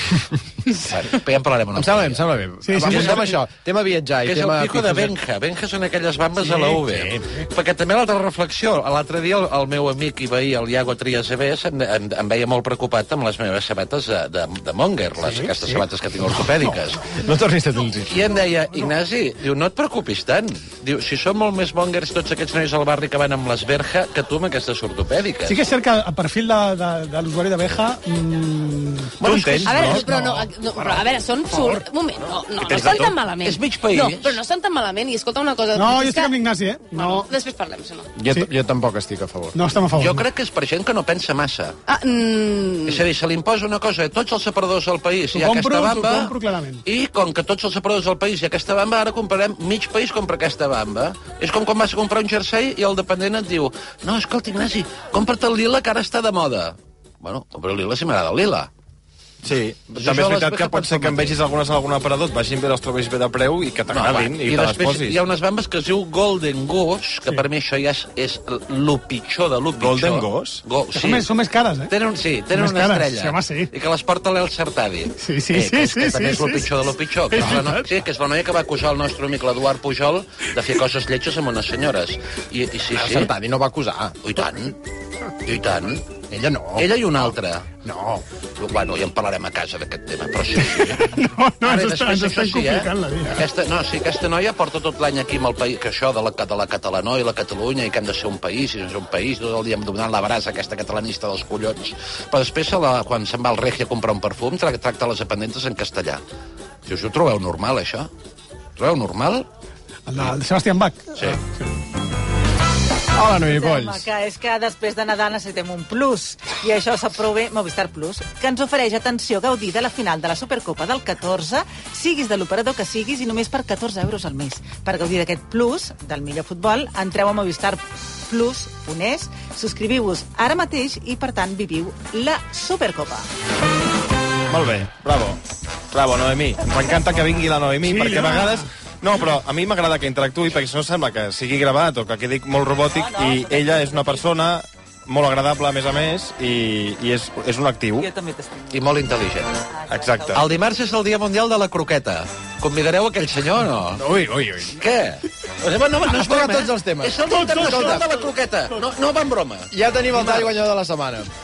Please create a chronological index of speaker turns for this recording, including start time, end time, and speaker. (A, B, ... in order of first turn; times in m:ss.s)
0:00.7-0:03.4 A
0:01.7-0:05.1 B
0:02.6-0:03.4 C
0:04.2-0:17.2 A
0:06.4-0:07.3 B
0:15.2-0:15.8 C
0:16.6-0:17.0 C
0:17.1-0:18.4 B
0:18.1-0:25.7 A
0:25.5-0:31.8 C
0:29.2-0:30.4 D
0:29.7-0:38.2 E
0:32.6-0:33.2 D
0:32.7-0:34.4 A
0:35.7-0:37.3 C
0:38.2-0:39.6 B
0:39.5-0:40.3 C
0:39.9-0:41.8 A
0:41.9-0:43.0 E
0:42.8-0:58.7 A
0:45.3-0:46.8 C
0:59.4-1:05.2 D
1:00.0-1:01.4 A
1:03.9-1:11.3 A
1:09.8-1:10.6 D
1:11.0-1:11.9 C
1:11.9-1:23.3 A
1:12.5-1:13.7 C
1:15.2-1:18.0 C
1:22.9-1:24.2 B
1:24.2-1:24.8 A
1:25.4-1:26.1 A
1:26.3-1:27.3 B
1:26.8-1:27.7 A
1:27.8-1:28.2 B
1:28.6-1:46.2 A
1:30.6-1:33.5 C
1:46.8-1:48.1 A
1:48.8-1:49.5 A
1:50.1-1:51.7 C
1:53.2-1:54.1 B
1:53.4-2:13.3 F
2:14.5-2:15.4 D
2:15.9-2:28.1 D
2:17.8-2:18.6 C
2:28.0-2:28.6 F
2:28.7-2:29.6 A
2:29.9-2:30.4 D
2:30.3-2:34.1 A
2:34.0-2:34.8 B
2:34.7-2:40.5 A
2:35.7-2:38.3 B
2:39.7-2:41.3 B